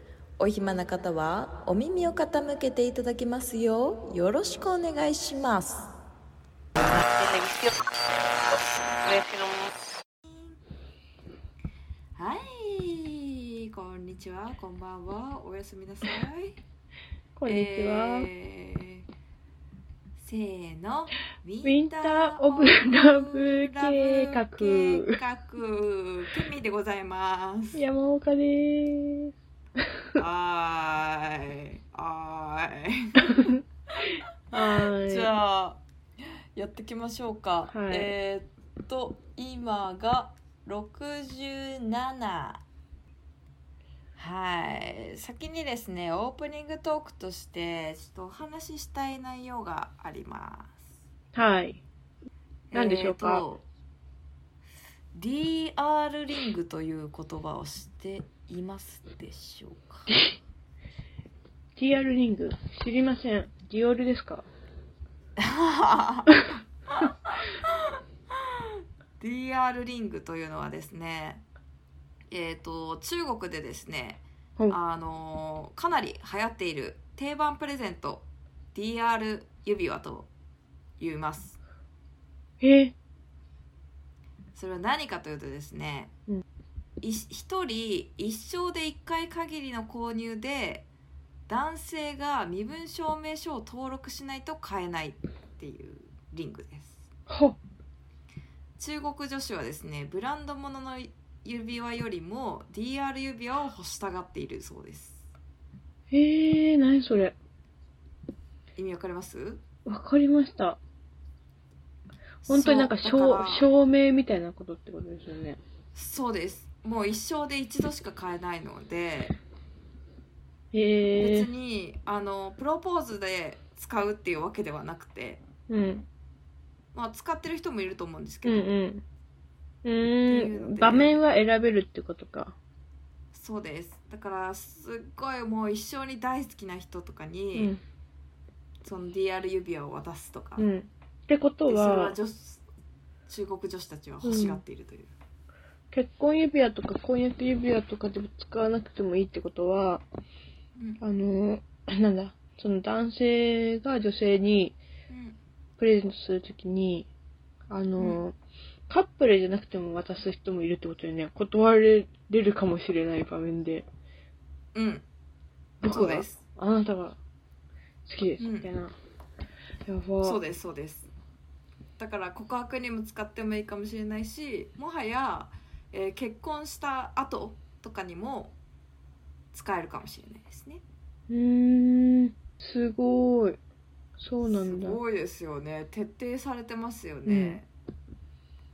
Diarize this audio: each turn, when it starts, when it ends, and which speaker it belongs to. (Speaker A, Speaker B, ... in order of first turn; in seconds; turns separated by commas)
Speaker A: 0.4-5.9, Speaker B: 6.8-7.8, Speaker B: 8.3-9.7, Speaker A: 10.2-10.6, Speaker A: 12.1-16.6, Speaker C: 17.4-18.3, Speaker A: 17.4-19.0, Speaker A: 20.2-27.8, Speaker C: 21.6-25.2, Speaker C: 27.7-29.3, Speaker A: 30.1-33.5, Speaker C: 34.5-35.3, Speaker A: 34.6-35.8, Speaker A: 36.5-42.6, Speaker C: 37.7-38.1, Speaker A: 44.2-50.8, Speaker C: 51.3-51.8, Speaker A: 52.7-53.6, Speaker C: 52.7-53.4, Speaker A: 55.1-60.1, Speaker C: 61.8-64.5, Speaker A: 65.4-71.4, Speaker A: 72.3-80.3, Speaker A: 81.0-81.6, Speaker C: 82.6-82.9, Speaker A: 84.5-86.1, Speaker A: 87.0-90.8, Speaker A: 91.5-97.1, Speaker C: 97.3-97.6, Speaker A: 98.8-105.2, Speaker C: 106.1-107.3, Speaker A: 108.8-109.6, Speaker C: 109.8-110.8, Speaker A: 112.4-113.7, Speaker C: 112.5-115.6, Speaker A: 115.9-119.3, Speaker C: 120.7-121.5, Speaker A: 121.2-125.4, Speaker C: 125.7-126.0, Speaker A: 126.9-128.7, Speaker C: 128.4-129.0, Speaker C: 129.8-132.6, Speaker A: 130.3-131.2, Speaker A: 133.3-137.7, Speaker C: 137.5-137.8, Speaker A: 138.8-140.6, Speaker C: 140.6-142.2, Speaker A: 141.7-142.6, Speaker A: 143.3-145.1, Speaker C: 144.2-144.6, Speaker C: 145.9-150.0, Speaker A: 150.8-151.0, Speaker C: 151.0-154.8, Speaker A: 155.1-155.4, Speaker C: 155.8-157.1, Speaker C: 157.7-158.3, Speaker C: 158.9-163.8, Speaker A: 164.7-165.0, Speaker C: 165.8-167.2, Speaker A: 165.8-166.4, Speaker C: 168.1-168.9, Speaker A: 168.4-168.7, Speaker C: 169.8-170.4, Speaker A: 170.2-171.1, Speaker A: 172.0-178.5, Speaker A: 179.5-180.8, Speaker C: 181.3-183.6, Speaker C: 184.2-185.0, Speaker A: 184.4-187.7, Speaker C: 187.2-187.6